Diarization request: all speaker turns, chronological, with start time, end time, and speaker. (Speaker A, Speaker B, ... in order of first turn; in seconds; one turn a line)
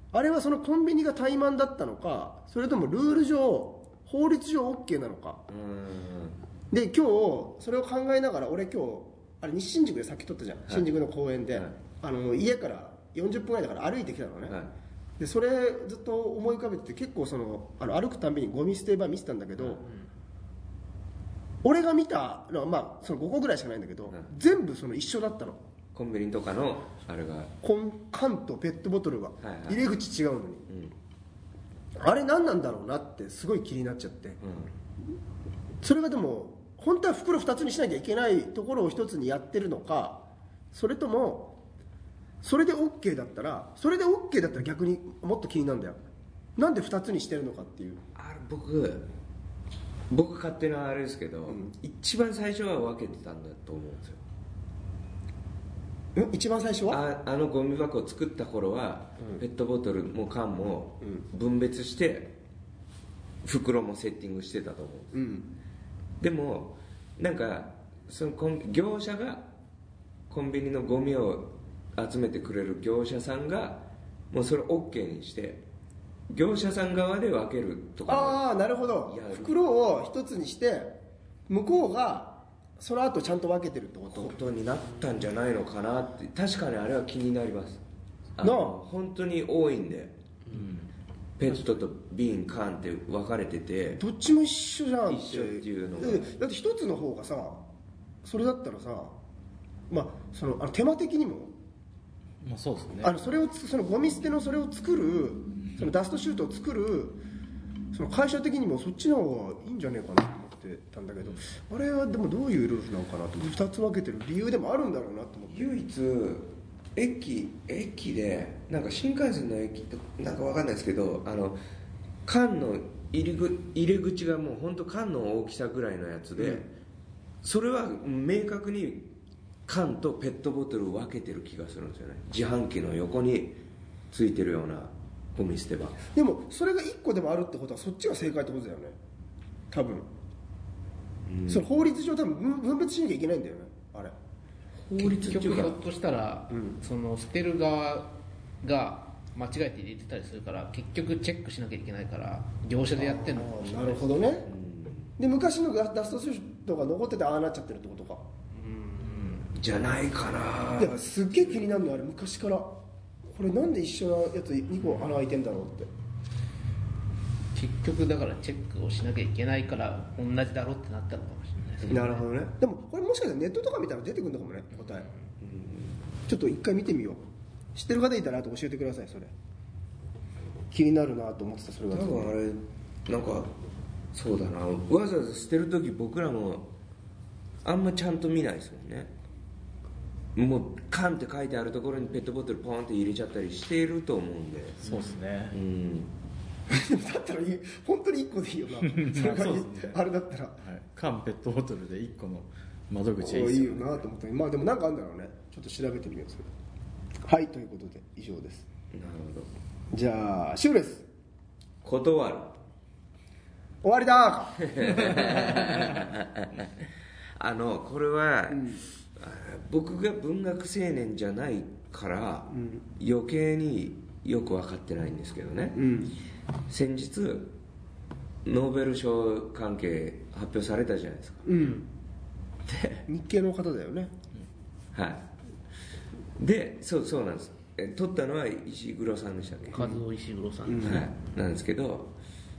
Speaker A: 0.1-5.4
Speaker B: 5.5-6.4
Speaker A: 6.7-14.6
Speaker B: 14.5-14.7
Speaker A: 15.2-19.9
Speaker B: 19.6-19.8
Speaker A: 21.6-25.6
Speaker B: 25.9-27.5
Speaker A: 27.6-30.6
Speaker B: 29.4-29.8
Speaker B: 30.7-30.9
Speaker A: 32.0-34.4
Speaker B: 34.4-34.7
Speaker A: 35.8-41.6
Speaker A: 42.4-46.0
Speaker A: 46.6-48.0
Speaker B: 48.2-49.1
Speaker B: 50.1-54.2
Speaker A: 51.5-51.7
Speaker A: 56.1-57.0
Speaker B: 56.9-62.4
Speaker B: 63.4-65.2
Speaker A: 65.1-65.5
Speaker B: 66.2-69.5
Speaker B: 70.3-75.7
Speaker B: 76.3-78.5
Speaker A: 78.1-84.4
Speaker B: 79.1-79.6
Speaker B: 84.1-87.8
Speaker B: 88.4-90.1
Speaker A: 88.4-88.8
Speaker C: 90.5-90.9
Speaker B: 91.4-94.0
Speaker A: 94.0-97.6
Speaker B: 95.1-96.3
Speaker A: 98.2-99.2
Speaker A: 99.9-101.5
Speaker C: 102.4-103.2
Speaker A: 103.0-107.2
Speaker A: 107.9-115.7
Speaker B: 115.5-121.6
Speaker B: 122.3-126.7
Speaker A: 126.4-126.7
Speaker B: 127.4-129.1
Speaker B: 129.7-136.0
Speaker A: 136.1-139.0
Speaker A: 139.7-140.1
Speaker B: 141.3-141.7
Speaker A: 141.5-144.1
Speaker B: 144.8-145.8
Speaker D: 145.0-154.2
Speaker A: 153.0-154.5
Speaker B: 154.5-155.2
Speaker A: 155.2-158.2
Speaker D: 158.7-159.4
Speaker B: 159.4-161.0
Speaker A: 160.8-162.8
Speaker A: 163.3-165.9
Speaker D: 167.5-172.2
Speaker A: 171.9-175.1
Speaker B: 175.4-176.1
Speaker A: 176.3-177.2
Speaker A: 177.8-179.3
Speaker A: 180.7-182.3
Speaker B: 181.9-183.5
Speaker B: 184.1-186.7
Speaker B: 187.6-189.1
Speaker B: 190.3-194.9
Speaker C: 194.8-195.6
Speaker B: 195.5-196.1
Speaker A: 196.7-200.6
Speaker C: 198.8-200.0
Speaker C: 200.6-204.0
Speaker A: 203.2-206.5
Speaker A: 207.2-208.7
Speaker B: 208.9-209.5
Speaker A: 209.9-211.1
Speaker B: 211.8-212.6
Speaker A: 213.8-215.7
Speaker B: 214.6-216.7
Speaker B: 217.4-225.9
Speaker A: 218.5-218.8
Speaker A: 222.5-222.8
Speaker A: 225.8-226.2
Speaker B: 226.7-227.6
Speaker B: 228.4-231.5
Speaker A: 231.4-231.9
Speaker B: 232.7-233.1
Speaker A: 233.1-234.1
Speaker B: 234.9-235.3
Speaker B: 236.4-239.9
Speaker D: 239.8-241.1
Speaker A: 240.7-241.1
Speaker B: 240.8-242.1